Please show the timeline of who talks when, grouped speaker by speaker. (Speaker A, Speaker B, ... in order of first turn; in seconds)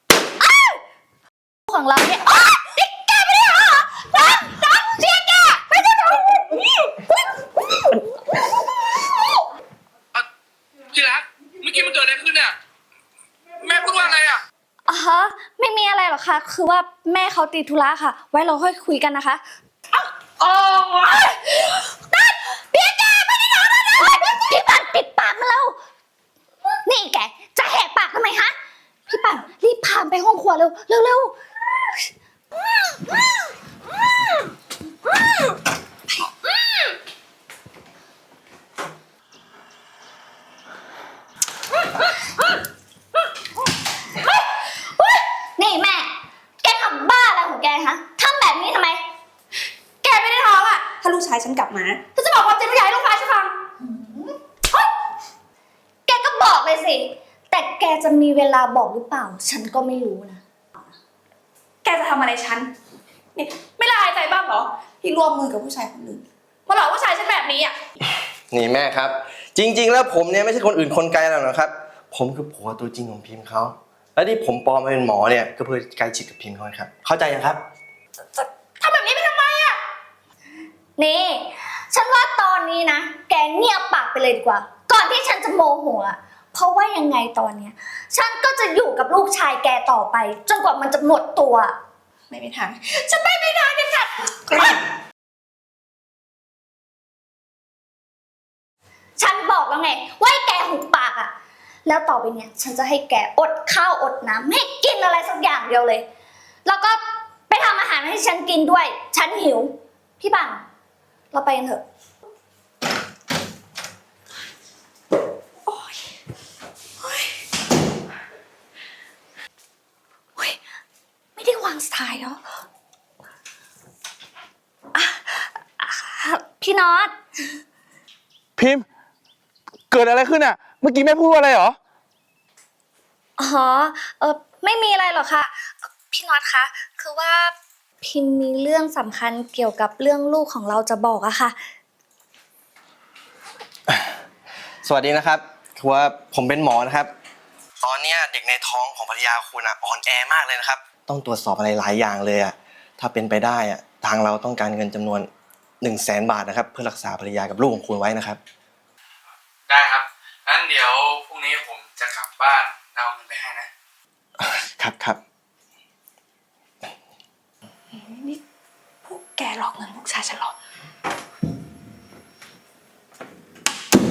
Speaker A: 0.4-0.8, 1.7-8.1, 8.8-9.4, 14.9-19.4, 20.3-25.8, 26.9-28.5, 29.1-31.4, 32.8-33.2, 44.2-49.0, 53.8-54.4, 56.1-60.4, 81.0-91.8, 99.2-101.3, 101.9-106.0, 106.7-110.6, 111.3-111.8, 121.4-122.4, 124.9-127.2, 133.4-141.6
Speaker B: 10.9-12.6, 13.6-14.4, 128.6-128.9, 129.9-131.8, 159.7-163.7
Speaker C: 50.0-53.5, 61.8-62.7, 63.4-67.8, 78.3-79.8, 92.3-94.8, 167.9-168.4, 169.0-170.5
Speaker D: 68.5-77.6, 143.9-144.2, 144.8-147.1, 147.8-155.3, 155.8-158.4, 164.4-165.2